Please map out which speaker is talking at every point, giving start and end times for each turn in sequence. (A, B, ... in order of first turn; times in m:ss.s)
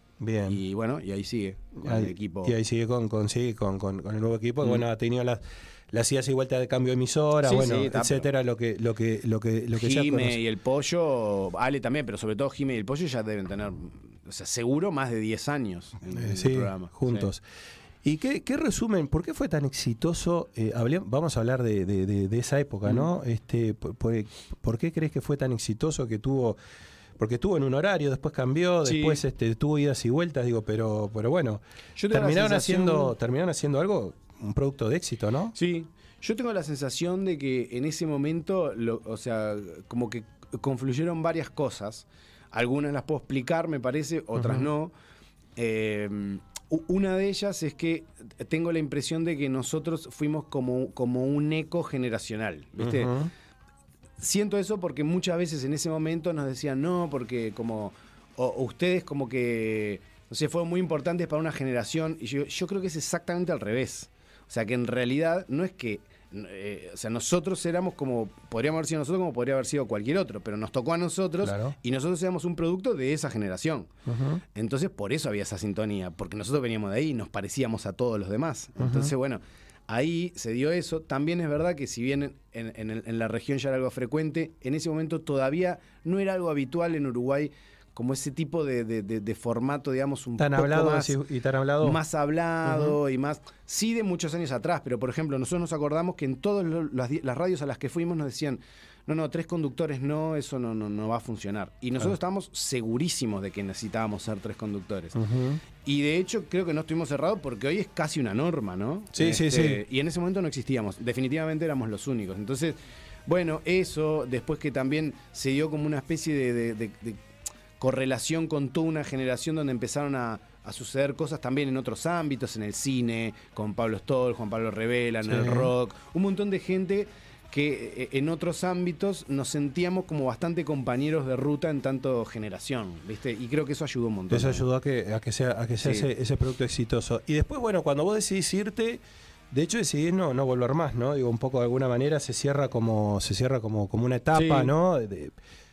0:00.2-0:00.6 A
0:00.5-0:02.5 B
0:01.8-0:10.4 A
0:07.4-0:08.3 B
0:09.8-0:17.3 B
0:16.1-0:17.4 A
0:18.0-0:26.6 A
0:27.2-0:35.6 A
0:28.8-0:29.2 B
0:32.0-0:33.1 B
0:35.6-0:44.9 B
0:44.4-0:44.7 A
0:45.6-0:53.1 B
0:52.8-0:53.3 A
0:54.2-1:13.9 B
1:11.4-1:11.8 A
1:14.1-1:14.4 A
1:14.5-1:31.1 B
1:18.8-1:19.1 A
1:30.4-1:32.0 A
1:31.8-1:45.2 B
1:32.6-1:33.0 A
1:45.2-1:45.6 A
1:45.8-1:52.8 B
1:49.1-1:49.8 A
1:53.3-1:57.2 B
1:57.8-2:14.6 B
2:05.2-2:05.7 A
2:14.3-2:25.3 A
2:15.8-2:16.1 B
2:24.3-2:24.7 B